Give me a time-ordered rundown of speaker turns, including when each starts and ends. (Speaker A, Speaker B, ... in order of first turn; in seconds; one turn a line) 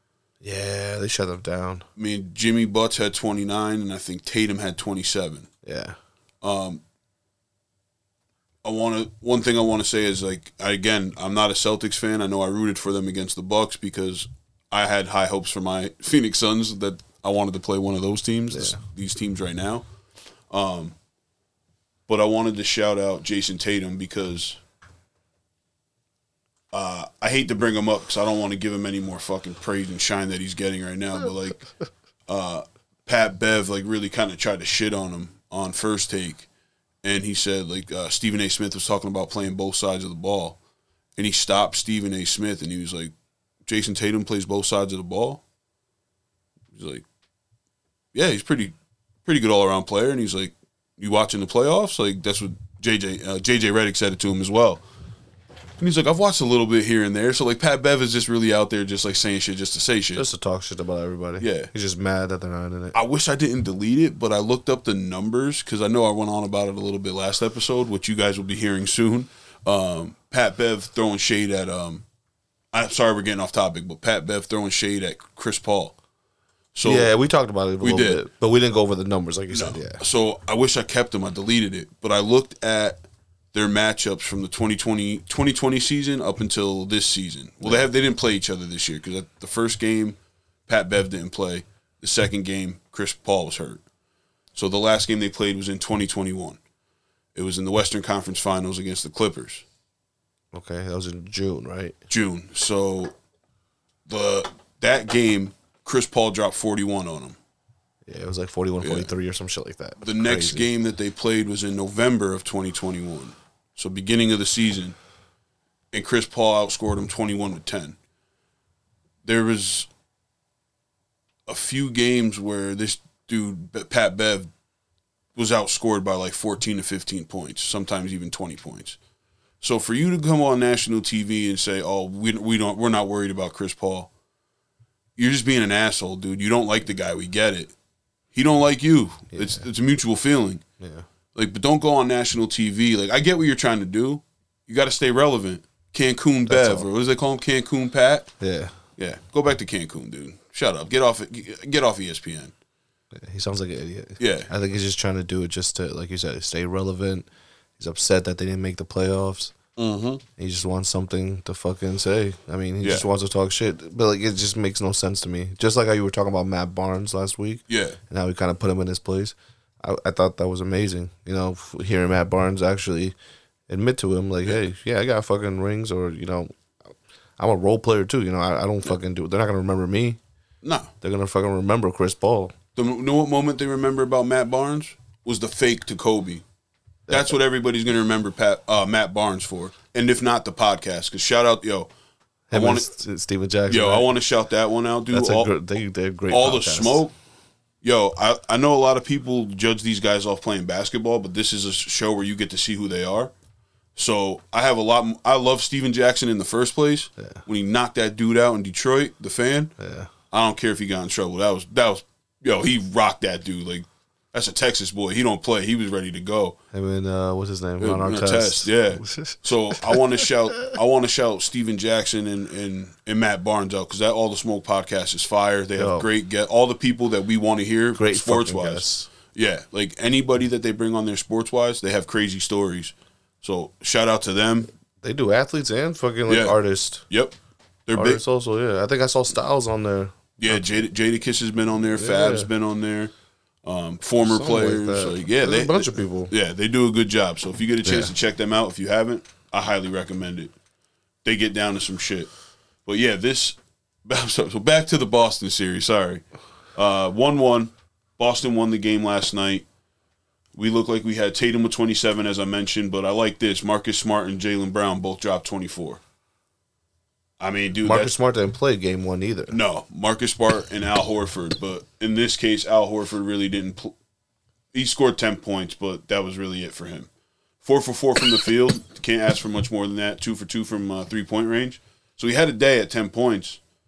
Speaker A: 0.4-1.9
Speaker B: 2.0-5.5
Speaker A: 5.6-6.0
Speaker B: 6.4-6.8
Speaker B: 8.6-19.9
Speaker A: 18.5-18.8
Speaker B: 20.5-20.9
Speaker B: 22.1-24.6
Speaker B: 26.7-31.7
Speaker B: 32.3-36.5
Speaker B: 37.0-40.6
Speaker B: 41.2-43.1
Speaker B: 43.7-45.4
Speaker B: 46.7-47.0
Speaker B: 48.1-48.7
Speaker B: 49.3-54.8
Speaker B: 55.8-60.3
Speaker A: 60.1-63.0
Speaker B: 61.4-61.7
Speaker B: 62.9-72.0
Speaker B: 72.7-76.0
Speaker B: 76.8-77.1
Speaker A: 76.8-80.0
Speaker B: 77.8-78.2
Speaker B: 79.5-93.8
Speaker A: 87.6-87.9
Speaker B: 94.5-96.6
Speaker B: 97.3-99.7
Speaker A: 100.5-102.0
Speaker B: 102.1-103.1
Speaker B: 104.1-107.4
Speaker A: 108.1-110.7
Speaker B: 108.8-109.1
Speaker B: 110.0-115.0
Speaker B: 115.9-118.0
Speaker B: 119.2-119.9
Speaker B: 121.5-124.5
Speaker B: 125.4-129.0
Speaker B: 129.6-134.1
Speaker B: 135.2-137.7
Speaker B: 138.3-140.6
Speaker A: 139.3-139.7
Speaker A: 140.8-141.1
Speaker B: 141.3-148.3
Speaker A: 146.5-146.9
Speaker A: 148.4-148.8
Speaker B: 149.0-152.5
Speaker A: 153.1-159.6
Speaker B: 154.2-154.5
Speaker B: 159.8-160.2
Speaker A: 160.4-173.2
Speaker B: 167.7-168.0
Speaker A: 173.7-176.5
Speaker A: 177.4-180.2
Speaker B: 180.6-180.9
Speaker A: 181.0-182.6
Speaker B: 182.8-186.4
Speaker A: 187.1-187.4
Speaker B: 187.1-191.9
Speaker A: 192.5-194.1
Speaker B: 192.5-192.9
Speaker B: 193.7-195.5
Speaker A: 195.1-197.0
Speaker B: 196.3-197.1
Speaker B: 197.8-203.3
Speaker B: 204.0-209.7
Speaker A: 209.8-210.1
Speaker B: 210.3-216.6
Speaker A: 216.7-220.8
Speaker B: 217.8-234.7
Speaker A: 225.8-226.1
Speaker A: 227.9-229.1
Speaker A: 235.0-237.1
Speaker B: 236.3-236.6
Speaker B: 237.1-237.3
Speaker B: 237.9-238.2
Speaker A: 237.9-240.8
Speaker B: 240.4-243.1
Speaker A: 241.9-242.5
Speaker B: 243.7-250.5
Speaker A: 244.2-246.3
Speaker A: 247.8-248.1
Speaker B: 251.2-252.3
Speaker B: 252.9-259.6
Speaker B: 260.6-266.0
Speaker B: 267.4-268.1
Speaker A: 267.8-269.6
Speaker B: 269.5-273.9
Speaker B: 274.7-277.1
Speaker B: 277.6-283.6